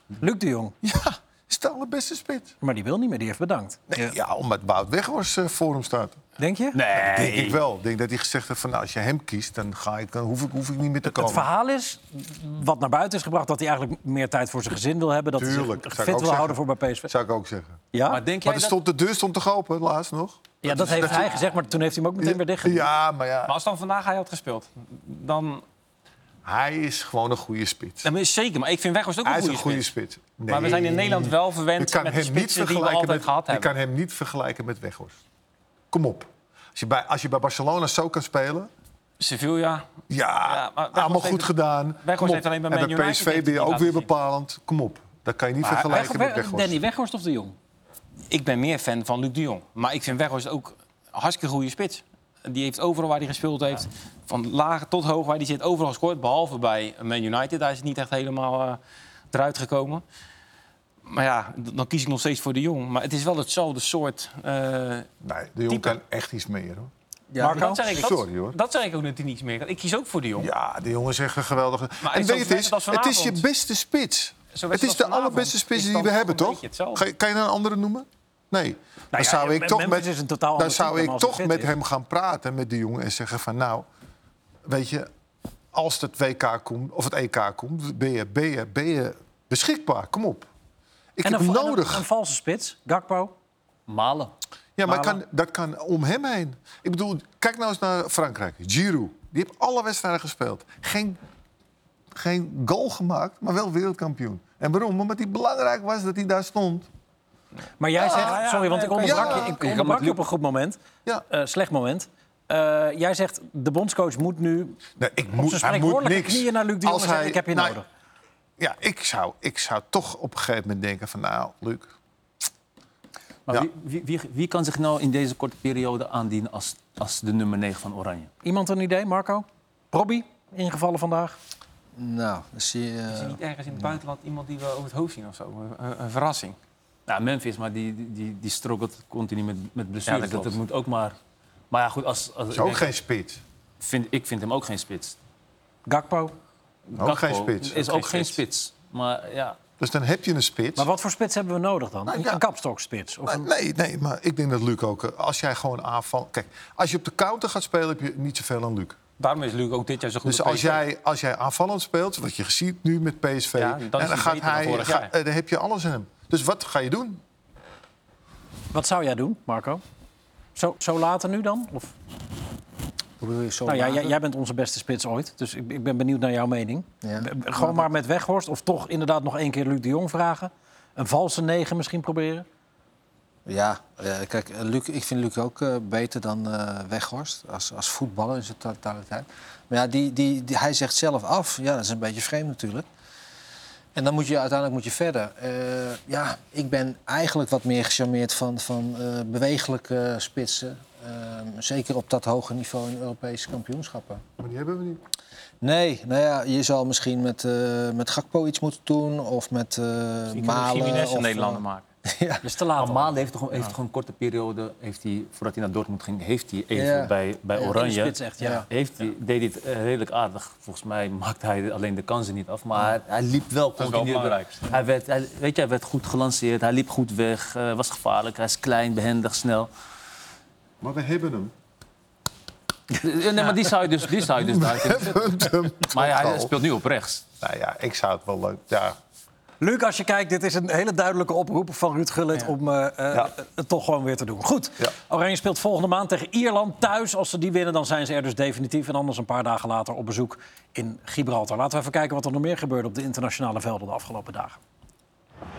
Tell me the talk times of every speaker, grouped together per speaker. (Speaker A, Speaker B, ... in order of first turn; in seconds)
Speaker A: 0.2-0.8, 2.6-3.8, 6.4-6.8, 11.1-17.1, 17.9-18.2, 20.6-22.9, 45.6-47.6, 67.4-68.0, 79.1-81.7, 91.2-93.3, 94.9-95.2, 107.8-114.8, 115.4-117.9, 128.4-131.4, 145.9-146.3, 150.8-153.5, 168.7-169.8, 170.6-171.9, 173.7-182.5, 212.4-213.2, 217.7-218.7, 239.6-254.6
Speaker B: 0.8-2.5, 3.9-6.2, 6.9-11.5, 15.4-17.8, 18.4-21.3, 22.2-23.6, 26.4-28.1, 29.2-35.2, 35.9-38.7, 40.1-46.8, 65.2-66.9, 67.9-68.6, 70.4-83.9, 84.7-85.1, 85.7-90.5, 91.2-92.1, 94.8-101.2, 102.1-106.9, 108.0-108.4, 109.0-109.6, 115.0-117.8, 118.6-121.9, 142.5-143.4, 147.0-148.3, 149.8-150.9, 152.1-152.4, 153.2-159.0, 160.2-167.2, 204.4-205.0, 230.8-231.5, 234.3-236.6, 237.4-239.0
Speaker C: 6.7-7.6, 18.1-18.8, 93.9-94.3, 109.6-110.1, 123.5-128.3, 137.1-141.2, 141.7-142.9, 143.8-145.2, 146.9-149.6, 212.8-218.2, 218.7-229.7, 232.9-237.2
Speaker D: 23.5-25.6, 28.0-29.9, 30.5-33.7, 39.2-39.9, 40.4-44.1, 48.3-58.8, 59.3-60.0, 61.0-65.1, 65.7-66.0, 67.5-70.5, 72.0-73.4, 74.5-77.0, 108.0-109.6, 133.1-136.6, 140.1-140.6, 159.2-160.8, 163.6-165.1, 210.3-211.8, 223.8-224.6
Speaker E: 67.3-68.0, 132.0-133.9, 173.2-174.2, 177.0-177.9, 183.5-192.9, 193.9-204.2, 205.6-212.4, 216.7-217.8, 218.4-218.7